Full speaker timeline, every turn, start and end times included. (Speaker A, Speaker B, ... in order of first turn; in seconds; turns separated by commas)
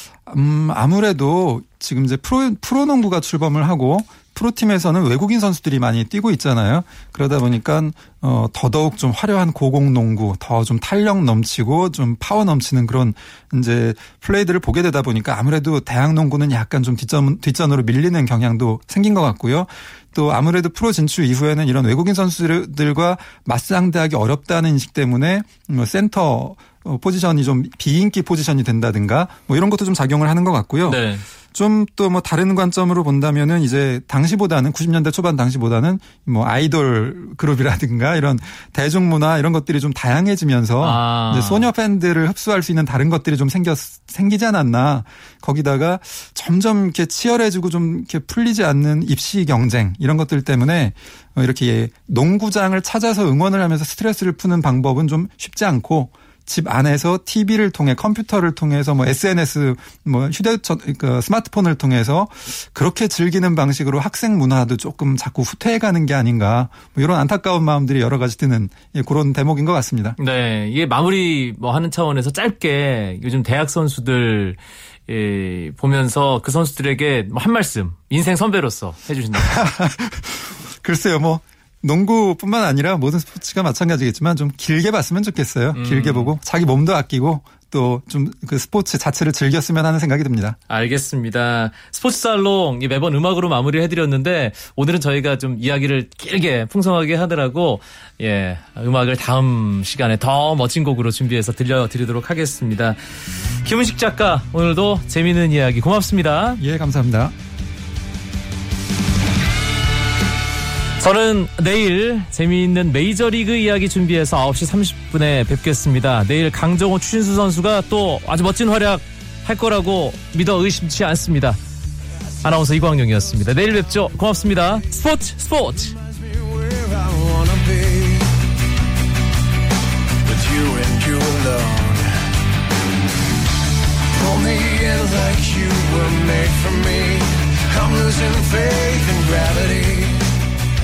Speaker A: 0.3-70.2, Speaker B: 30.9-31.2, Speaker B: 40.8-41.7, Speaker B: 70.2-79.7, Speaker A: 79.4-90.6, Speaker B: 85.7-86.3, Speaker B: 90.7-106.6, Speaker A: 106.6-107.3, Speaker B: 111.0-121.6, Speaker C: 122.3-125.0, Speaker B: 122.4-125.9, Speaker C: 125.8-128.3, Speaker C: 130.2-132.1, Speaker C: 134.1-140.2